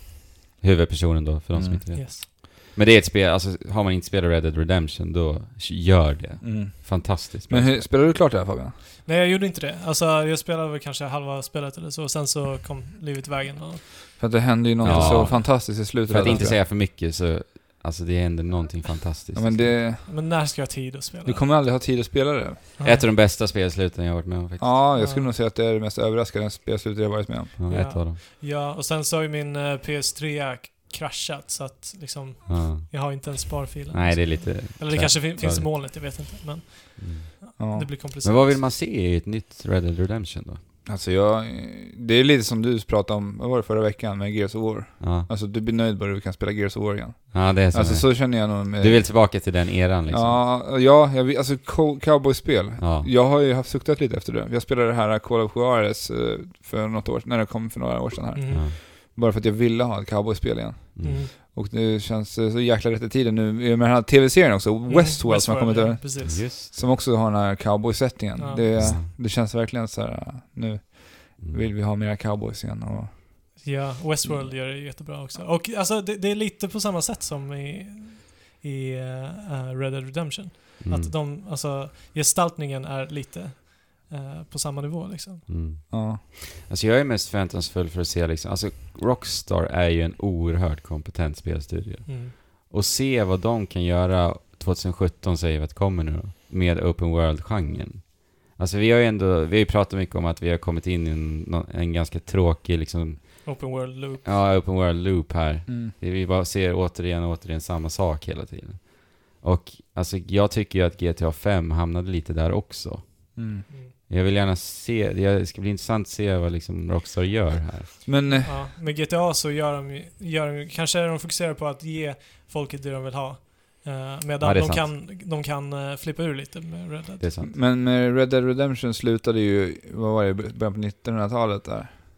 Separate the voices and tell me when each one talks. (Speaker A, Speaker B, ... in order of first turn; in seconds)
Speaker A: 0.6-7.9, 14.8-19.8, 22.8-24.8, 27.6-28.2, 32.5-36.2, 37.0-40.6, 45.0-45.3, 47.3-50.4, 52.8-53.1, 58.5-58.8, 61.0-61.3, 66.2-66.7, 68.8-69.1, 71.4-71.7, 80.8-81.1, 85.5-118.2, 124.4-124.9, 127.2-127.5
Speaker B: 1.5-1.8, 6.4-8.8, 14.2-16.6, 19.3-20.1, 21.2-22.6, 24.6-28.0, 37.6-37.9, 40.9-49.5, 50.1-73.6, 74.2-74.5, 85.9-86.2, 105.7-105.9, 113.3-113.7, 118.1-118.6, 127.4-131.9
Speaker C: 1.9-2.2, 9.0-15.4, 16.2-16.5, 20.0-21.4, 22.8-23.1, 24.9-25.3, 27.7-38.6, 58.3-58.6, 61.0-61.3, 64.9-66.5, 68.4-68.9, 73.6-85.5, 92.1-92.3, 103.5-104.4, 118.4-127.3